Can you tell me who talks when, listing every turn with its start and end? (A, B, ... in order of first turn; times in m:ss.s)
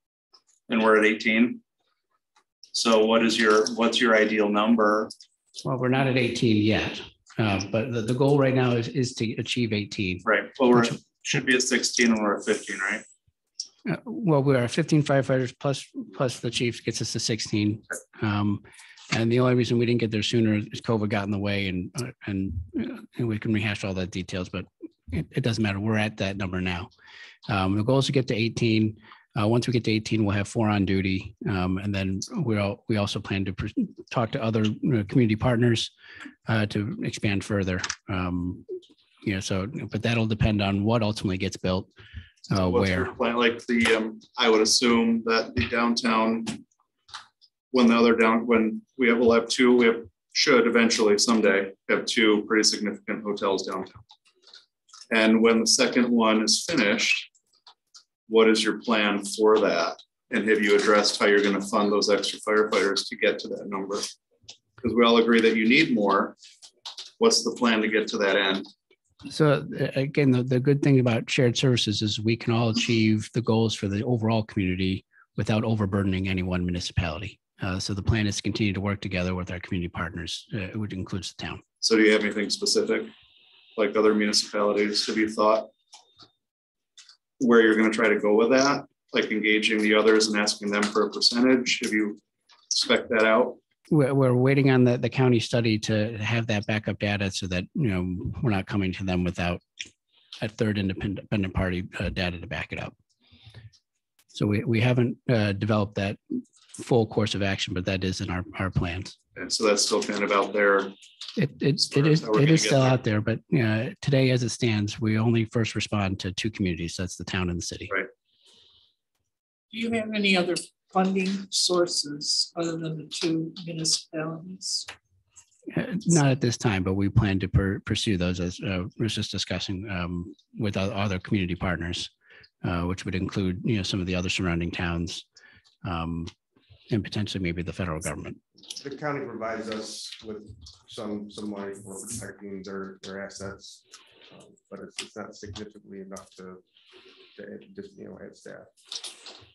0:00.7-0:01.6 A
0:02.7-0:05.1 A
0:05.6-0:10.9 B
0:10.2-0:13.0 A
0:13.9-0:26.9 B
0:27.5-0:35.9 B
0:36.5-0:38.7 B
0:39.2-0:41.9 B
0:42.5-0:43.1 B
0:42.5-0:46.6 A
0:47.7-0:54.0 A
0:55.1-0:57.3 A
0:58.3-1:04.1 A
1:04.8-1:06.4 A
1:07.2-1:08.7 A
1:09.3-1:21.6 B
1:21.8-1:23.1 A
1:23.8-1:25.7 A
1:27.4-1:32.2 A
1:32.7-1:33.6 A
1:33.9-1:39.6 B
1:40.4-1:42.9 B
1:44.3-1:46.2 B
1:46.8-1:49.2 B
1:49.4-1:50.9 A
1:51.4-1:58.0 B
1:51.8-1:53.0 A
1:59.7-2:04.9 C
2:05.7-2:12.1 B
2:12.6-2:15.2 B
2:15.8-2:16.3 B
2:16.9-2:18.4 B
2:18.8-2:26.6 D
2:27.4-2:28.7 D